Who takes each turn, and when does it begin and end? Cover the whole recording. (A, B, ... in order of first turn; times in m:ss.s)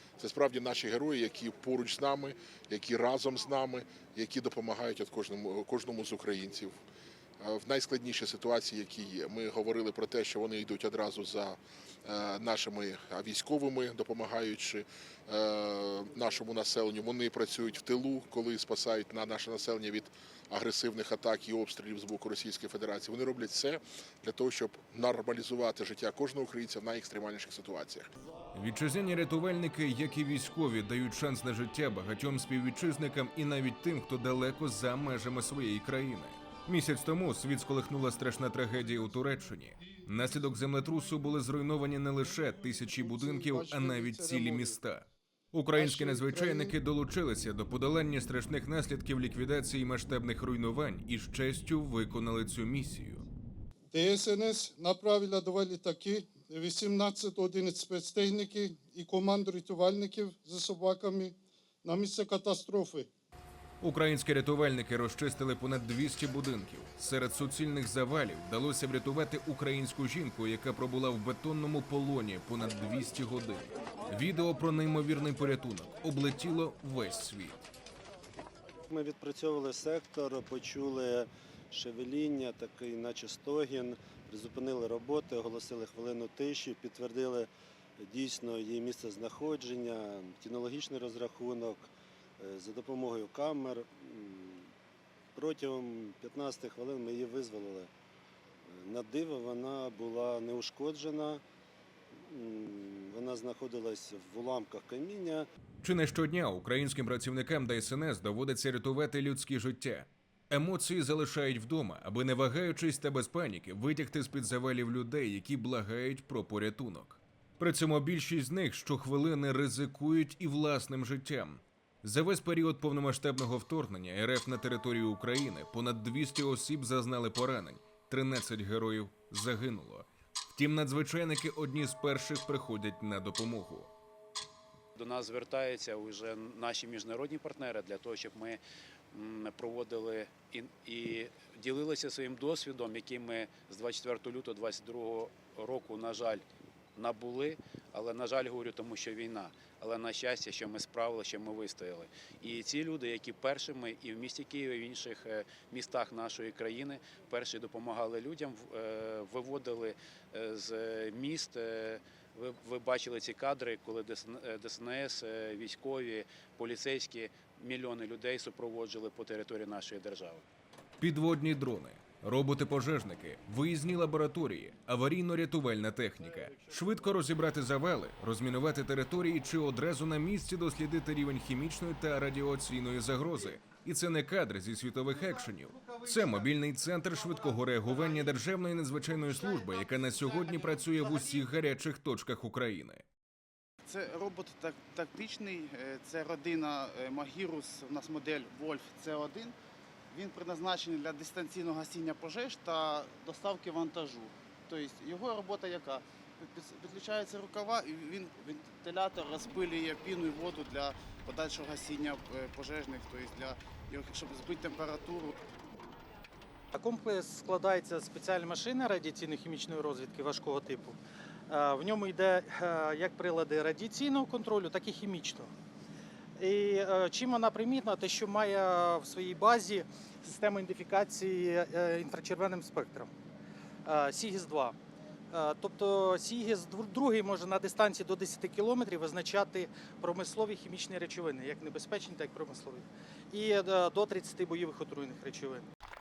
0:00.2-0:06.8 A
0:07.4-0:28.1 A
0:28.5-0:53.2 B
0:42.9-0:44.8 C
0:45.7-0:46.7 C
0:53.9-1:03.1 C
1:03.8-1:17.6 B
1:18.9-1:34.7 D
1:35.3-1:37.9 D
1:38.7-1:41.4 D
1:42.3-1:45.4 D
1:45.8-2:13.9 B
2:15.0-2:18.6 E
2:19.1-2:26.4 E
2:27.0-2:50.4 E
2:51.0-3:13.0 B
3:13.8-3:19.5 F
3:20.1-3:35.4 F
3:36.7-3:41.0 G
3:41.5-3:45.5 G
3:46.4-3:53.1 G
3:53.8-3:54.8 G
3:55.3-4:05.7 G